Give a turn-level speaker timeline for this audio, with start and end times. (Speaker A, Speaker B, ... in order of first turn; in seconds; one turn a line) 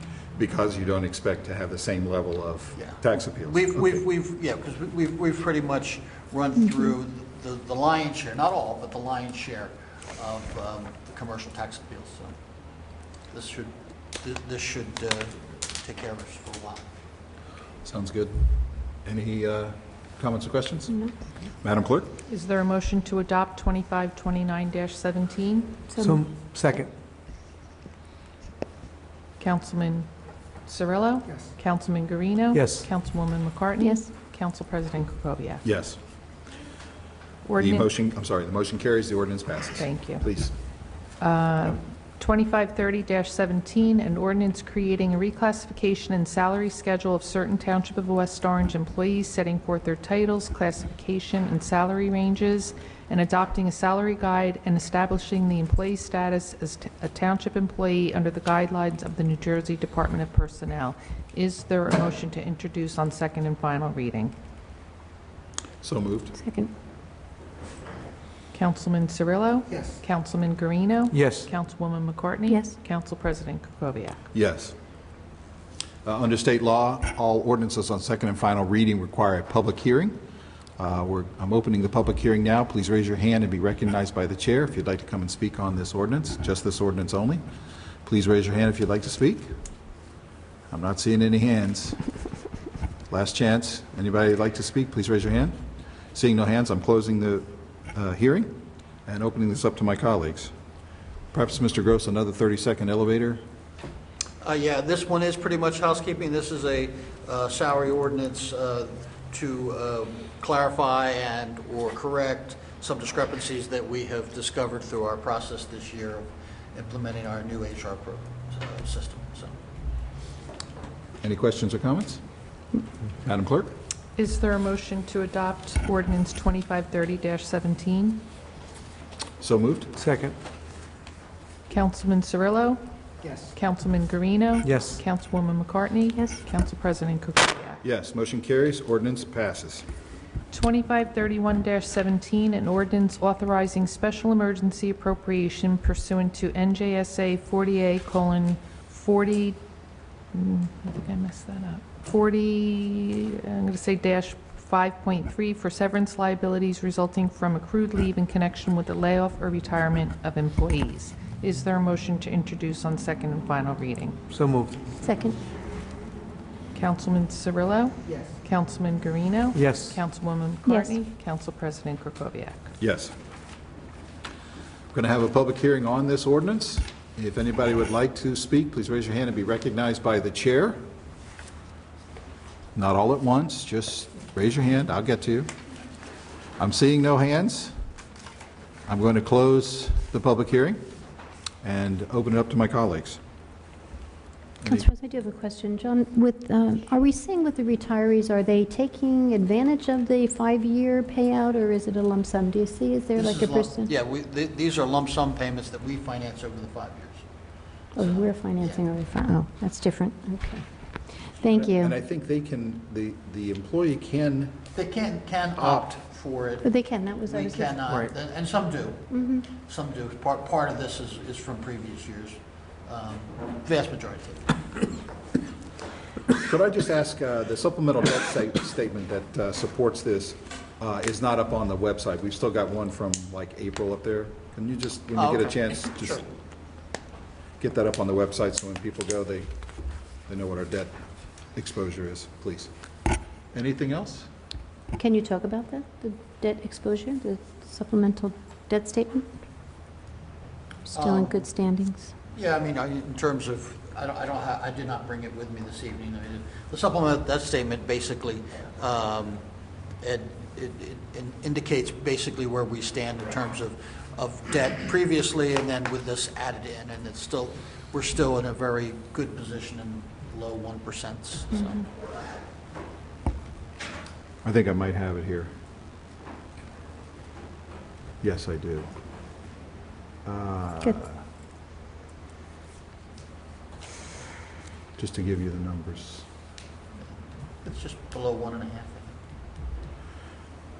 Speaker A: 0.3-4.0
Speaker B: 2.8-12.3
Speaker B: 13.3-16.9
Speaker A: 17.8-21.0
Speaker A: 21.6-22.1
Speaker C: 22.3-25.9
Speaker D: 25.9-26.2
Speaker E: 26.0-26.9
Speaker C: 29.4-30.1
Speaker C: 30.6-35.6
Speaker E: 32.5-32.9
Speaker D: 33.8-34.1
Speaker A: 35.6-36.0
Speaker C: 37.4-37.9
Speaker A: 37.6-40.5
Speaker C: 39.8-40.2
Speaker C: 41.2-64.3
Speaker A: 65.8-66.3
Speaker D: 66.3-66.7
Speaker C: 68.5-74.2
Speaker E: 71.1-71.5
Speaker D: 72.5-72.7
Speaker A: 74.3-74.7
Speaker A: 76.0-80.2
Speaker A: 80.8-87.4
Speaker A: 88.0-89.5
Speaker A: 90.7-92.0
Speaker A: 93.1-95.6
Speaker A: 96.1-98.5
Speaker A: 99.0-100.5
Speaker A: 101.3-103.4
Speaker B: 104.4-119.5
Speaker A: 121.2-122.2
Speaker A: 123.2-123.7
Speaker C: 124.2-128.2
Speaker A: 129.4-129.9
Speaker E: 129.9-130.3
Speaker C: 131.7-132.8
Speaker C: 133.4-137.8
Speaker E: 134.6-135.0
Speaker D: 136.1-136.4
Speaker A: 137.8-139.8
Speaker C: 140.5-149.6
Speaker C: 150.3-164.2
Speaker E: 164.3-164.8
Speaker D: 165.0-165.4
Speaker C: 166.7-172.7
Speaker E: 169.5-170.0
Speaker D: 170.7-170.9
Speaker A: 172.8-173.1
Speaker A: 174.9-180.8
Speaker A: 182.7-185.5
Speaker A: 186.6-187.7
Speaker A: 188.9-190.8
Speaker A: 191.6-193.2
Speaker D: 194.7-203.9
Speaker B: 203.1-207.2
Speaker D: 207.9-210.6
Speaker B: 208.0-208.8
Speaker D: 211.4-211.9
Speaker A: 211.5-214.7
Speaker B: 214.7-216.7
Speaker A: 215.6-215.9
Speaker D: 216.6-217.8
Speaker B: 217.2-224.5
Speaker D: 219.1-219.4
Speaker A: 226.4-236.2
Speaker B: 235.2-236.2
Speaker A: 237.6-239.5
Speaker A: 240.3-241.0
Speaker A: 241.5-242.7
Speaker A: 243.5-244.3
Speaker D: 244.9-249.4
Speaker D: 250.9-252.1
Speaker B: 250.9-251.4
Speaker B: 252.3-259.4
Speaker B: 260.0-271.9
Speaker A: 274.4-275.5
Speaker A: 278.2-278.9
Speaker A: 280.2-281.1
Speaker A: 285.0-286.2
Speaker B: 287.6-289.1